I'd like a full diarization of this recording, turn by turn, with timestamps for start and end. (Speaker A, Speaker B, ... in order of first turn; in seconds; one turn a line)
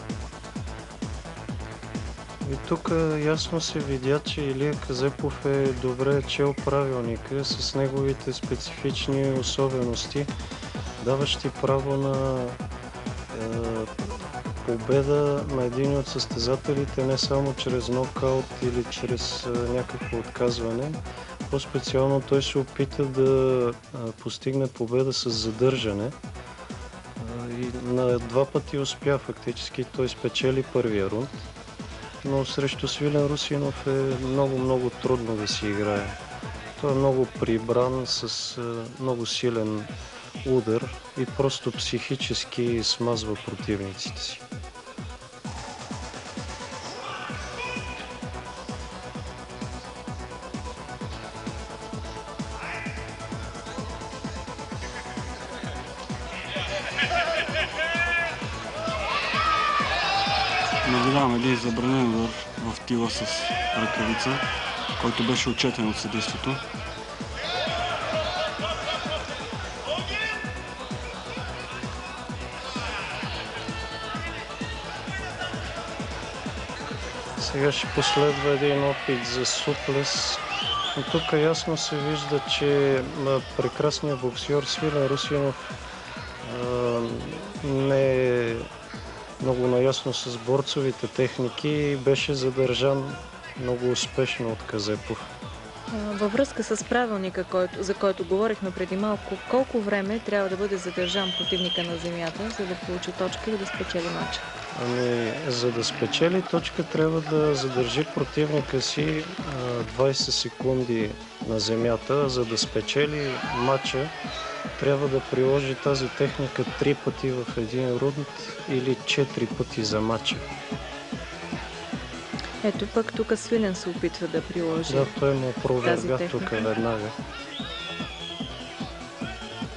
Speaker A: 2.4-10.3
Speaker A: 11.0-12.6
Speaker A: 13.3-26.2
Speaker A: 27.2-31.4
Speaker A: 32.2-36.2
Speaker A: 36.8-39.9
Speaker A: 40.4-44.4
Speaker B: 60.8-64.4
Speaker B: 65.0-66.6
Speaker A: 77.4-80.4
Speaker A: 80.9-85.8
Speaker A: 86.4-88.7
Speaker A: 89.4-95.3
Speaker C: 95.9-104.5
Speaker A: 104.7-114.1
Speaker A: 114.8-120.5
Speaker C: 122.6-125.1
Speaker A: 124.9-127.2
Speaker C: 125.8-126.7